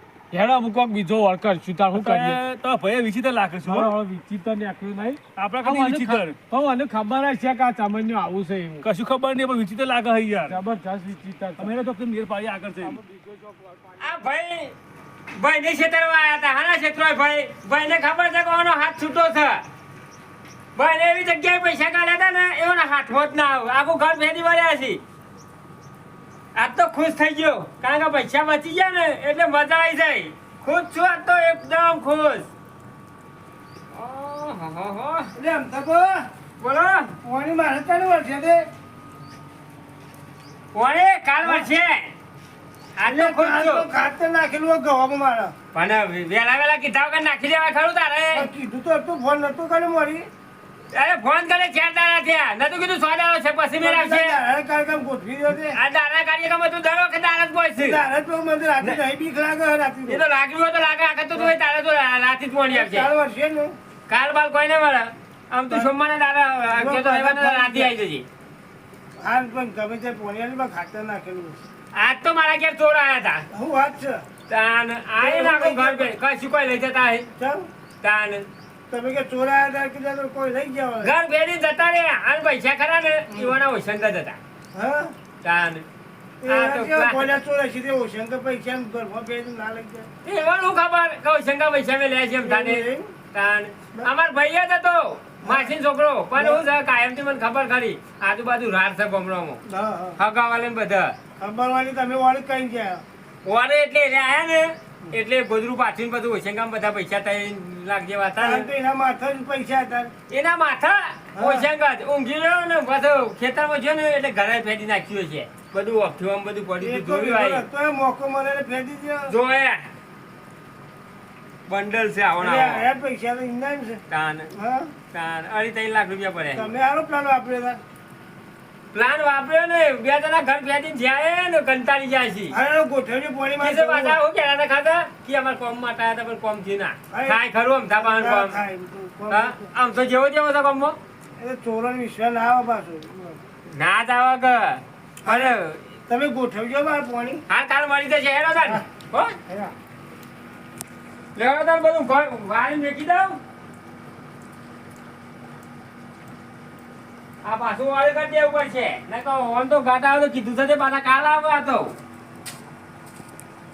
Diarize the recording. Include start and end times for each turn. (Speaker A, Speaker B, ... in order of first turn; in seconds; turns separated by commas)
Speaker A: 0.3-2.4, Speaker B: 1.9-3.9, Speaker A: 3.6-8.9, Speaker B: 5.3-6.4, Speaker B: 8.8-10.6, Speaker A: 10.5-11.7, Speaker B: 11.6-13.0, Speaker A: 12.8-14.2, Speaker C: 14.0-14.7, Speaker C: 15.4-19.6, Speaker C: 20.8-25.0, Speaker C: 26.6-32.5, Speaker C: 33.9-35.3, Speaker D: 35.4-36.2, Speaker C: 36.6-37.1, Speaker D: 37.2-38.7, Speaker C: 40.7-42.1, Speaker D: 41.4-41.7, Speaker C: 43.0-43.9, Speaker D: 43.0-45.5, Speaker C: 45.7-48.5, Speaker D: 48.3-50.3, Speaker C: 50.9-54.4, Speaker D: 53.8-55.8, Speaker C: 55.6-58.0, Speaker D: 57.8-60.2, Speaker C: 60.0-63.1, Speaker D: 62.7-63.8, Speaker C: 64.1-68.2, Speaker D: 66.7-67.9, Speaker D: 69.2-71.5, Speaker C: 71.9-73.4, Speaker D: 73.5-74.2, Speaker C: 74.5-77.3, Speaker D: 75.2-76.1, Speaker D: 77.4-77.7, Speaker C: 78.0-78.5, Speaker D: 78.9-81.1, Speaker C: 81.0-84.4, Speaker D: 84.7-85.1, Speaker C: 85.4-85.8, Speaker D: 86.4-90.0, Speaker C: 86.5-87.4, Speaker C: 90.2-99.6, Speaker D: 92.4-93.1, Speaker D: 95.4-95.8, Speaker D: 96.4-96.6, Speaker D: 99.7-100.2, Speaker C: 100.2-101.2, Speaker D: 101.4-103.0, Speaker C: 103.4-108.7, Speaker D: 108.4-110.1, Speaker C: 110.3-117.6, Speaker D: 111.3-111.7, Speaker D: 116.8-119.3, Speaker C: 119.3-119.9, Speaker C: 121.7-122.8, Speaker D: 122.4-124.0, Speaker C: 124.1-124.5, Speaker D: 124.5-124.9, Speaker C: 125.1-126.7, Speaker D: 126.5-127.8, Speaker C: 128.9-132.6, Speaker D: 132.5-134.2, Speaker C: 133.6-138.6, Speaker D: 137.1-137.4, Speaker D: 137.9-139.6, Speaker C: 139.3-141.0, Speaker D: 141.4-143.4, Speaker C: 143.7-145.9, Speaker D: 145.2-145.5, Speaker D: 146.1-147.4, Speaker C: 147.5-149.3, Speaker D: 149.5-149.7, Speaker C: 151.3-153.4, Speaker C: 157.4-161.9